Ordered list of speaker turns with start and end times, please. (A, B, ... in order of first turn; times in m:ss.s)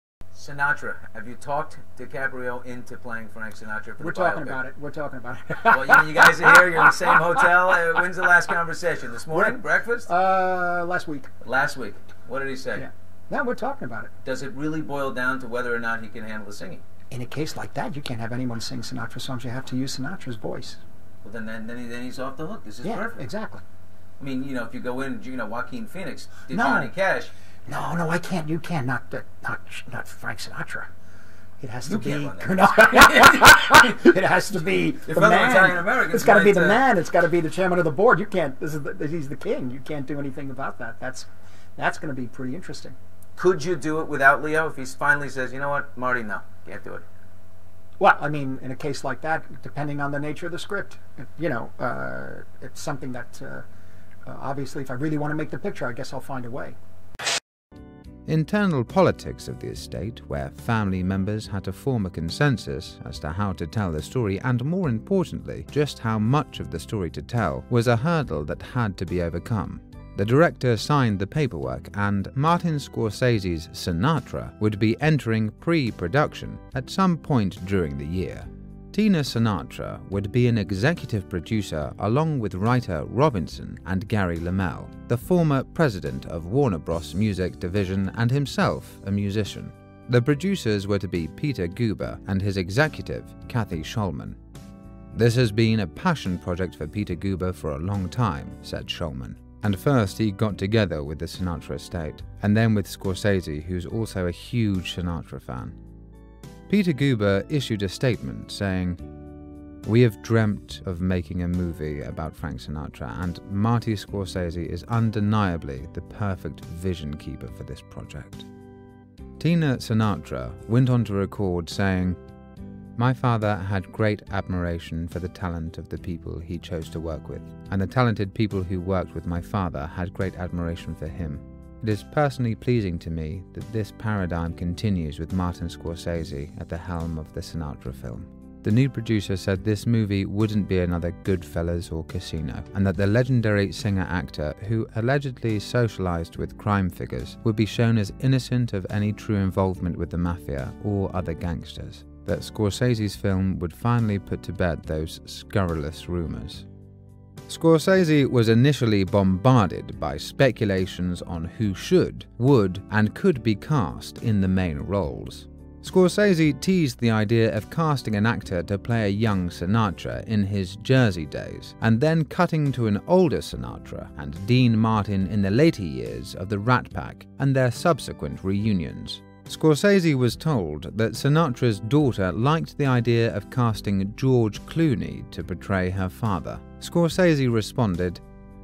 0:00.4-0:04.6 A
0:04.0-0:07.5 B
0:05.6-0:10.1 A
0:09.3-0:11.3 B
0:11.4-0:12.9 A
0:12.8-0:14.1 B
0:14.2-0:16.8 A
0:17.1-0:20.8 B
0:21.2-0:23.2 A
0:22.8-0:23.6 B
0:24.2-0:27.3 A
0:26.5-0:26.9 B
0:27.7-0:30.9 B
0:31.6-0:43.0 B
0:31.8-0:34.0 A
0:35.0-0:36.8 A
0:43.4-0:47.0 A
0:48.0-0:53.6 B
0:54.3-0:56.8 B
0:58.3-1:34.4 C
1:35.1-1:45.8 C
1:46.7-1:49.0 C
1:49.8-1:58.5 C
1:59.4-2:02.2 C
2:03.0-2:36.7 C
2:37.5-3:08.2 C